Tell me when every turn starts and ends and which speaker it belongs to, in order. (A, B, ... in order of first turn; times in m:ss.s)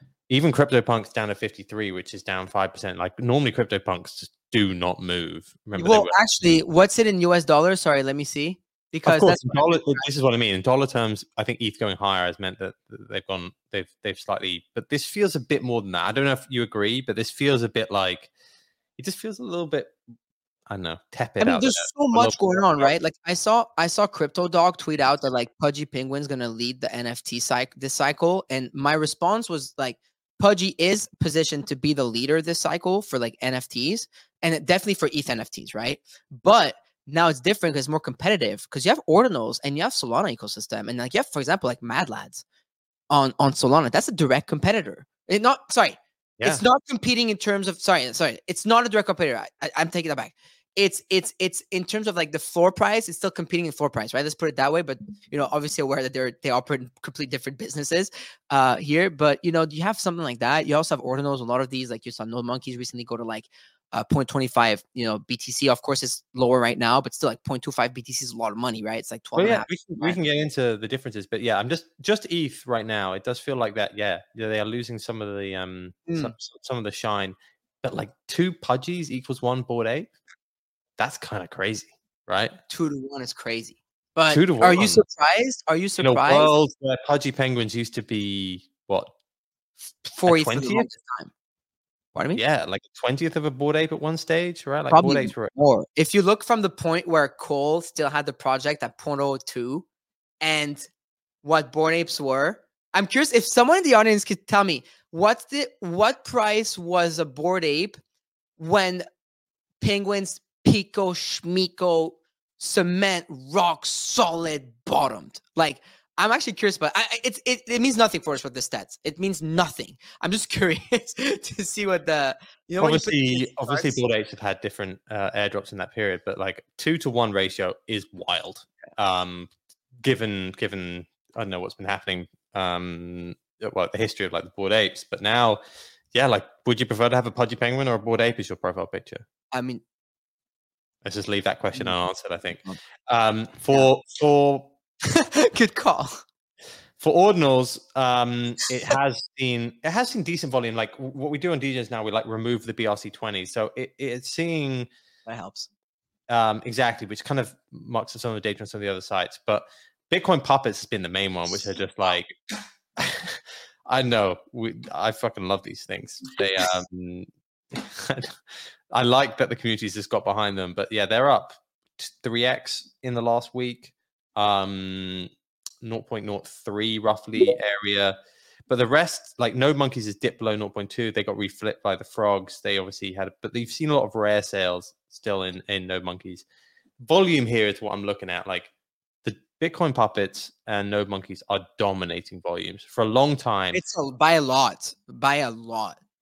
0:00.3-0:06.2 A
0:05.8-0:10.0 B
0:09.0-0:18.3 A
0:19.0-0:20.0 A
0:20.7-0:22.9 A
0:21.4-0:42.4 B
0:43.1-1:10.2 B
0:46.4-0:46.7 A
1:09.4-1:20.1 A
1:16.1-1:16.3 B
1:21.0-1:22.6 A
1:22.7-1:26.5 B
1:24.3-1:25.0 A
1:26.0-1:29.1 A
1:30.0-1:31.3 B
1:30.3-1:30.9 A
1:32.2-1:32.4 B
1:32.3-1:35.6 A
1:34.9-1:39.8 B
1:40.4-1:40.9 B
1:41.4-1:48.0 B
1:48.6-1:49.1 B
1:49.8-2:04.0 B
2:02.8-2:09.5 A
2:10.0-2:15.6 A
2:16.1-2:19.2 A
2:19.5-2:19.8 B
2:21.0-2:24.7 A
2:25.1-2:26.2 B
2:27.0-2:34.9 A
2:35.3-2:35.7 B
2:36.3-2:42.3 A
2:43.0-2:48.4 A
2:48.9-2:55.3 A
2:55.8-2:58.2 A
2:58.7-3:06.4 A
3:07.0-3:08.7 A
3:09.2-3:13.8 A
3:13.7-3:16.0 B